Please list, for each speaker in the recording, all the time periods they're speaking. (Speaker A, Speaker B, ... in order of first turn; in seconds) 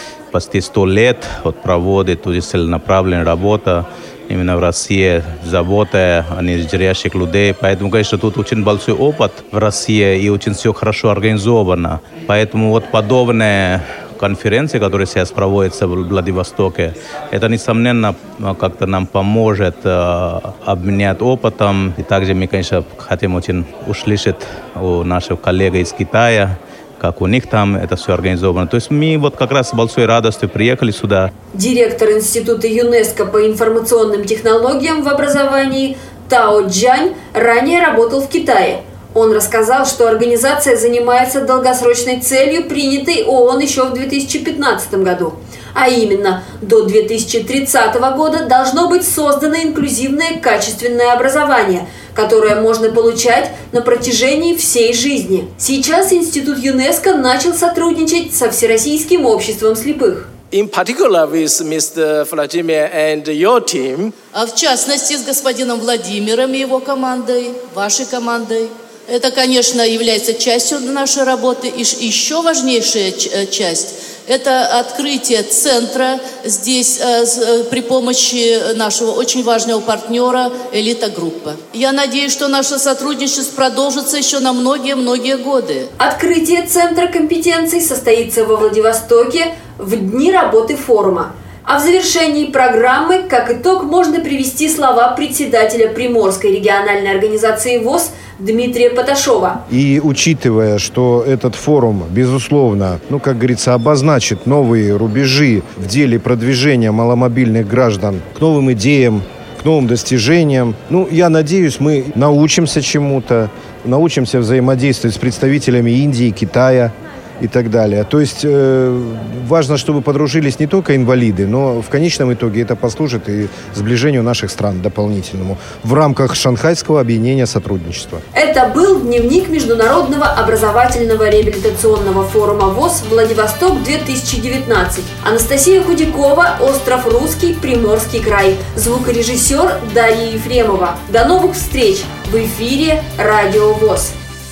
Speaker A: 0.3-31.3
Speaker B: 31.5-60.3, 86.0-99.6, 128.3-144.1
Speaker C: 60.5-64.1
Speaker D: 64.3-85.9
Speaker E: 99.7-128.2